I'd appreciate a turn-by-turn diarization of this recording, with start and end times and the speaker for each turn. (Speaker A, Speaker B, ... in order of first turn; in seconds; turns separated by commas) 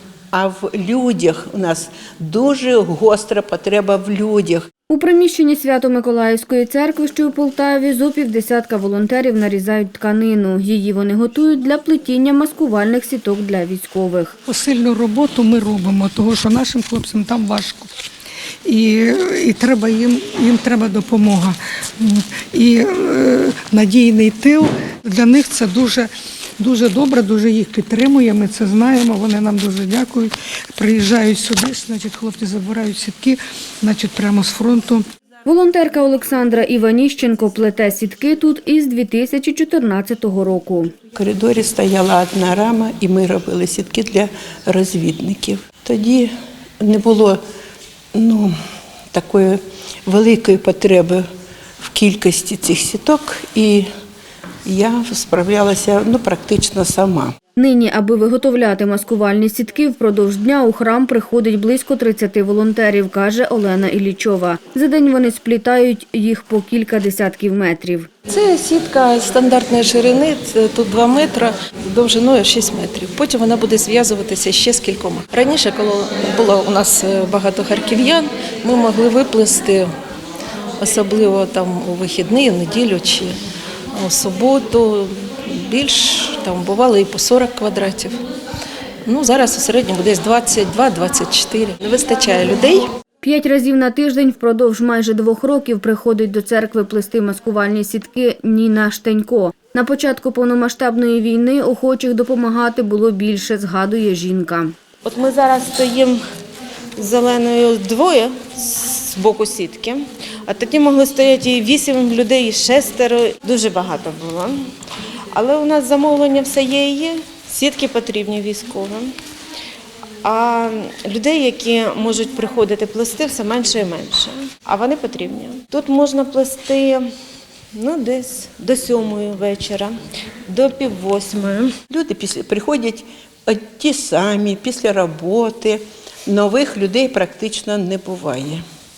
Speaker A: 0.3-4.7, Speaker B: 4.9-14.3, Speaker C: 14.5-17.9, Speaker C: 18.6-35.0, Speaker B: 35.4-40.9, Speaker A: 41.1-47.4, Speaker A: 48.1-48.5, Speaker A: 49.1-51.2, Speaker A: 51.8-53.9, Speaker A: 54.6-57.3, Speaker B: 57.5-68.1, Speaker D: 68.3-79.9, Speaker D: 80.8-83.3, Speaker D: 83.9-88.2, Speaker D: 89.0-92.8, Speaker B: 93.2-104.8, Speaker E: 105.0-106.2, Speaker E: 107.0-114.6, Speaker E: 115.3-119.1, Speaker E: 120.2-127.0, Speaker E: 127.7-129.9, Speaker E: 130.5-131.8, Speaker A: 131.9-138.6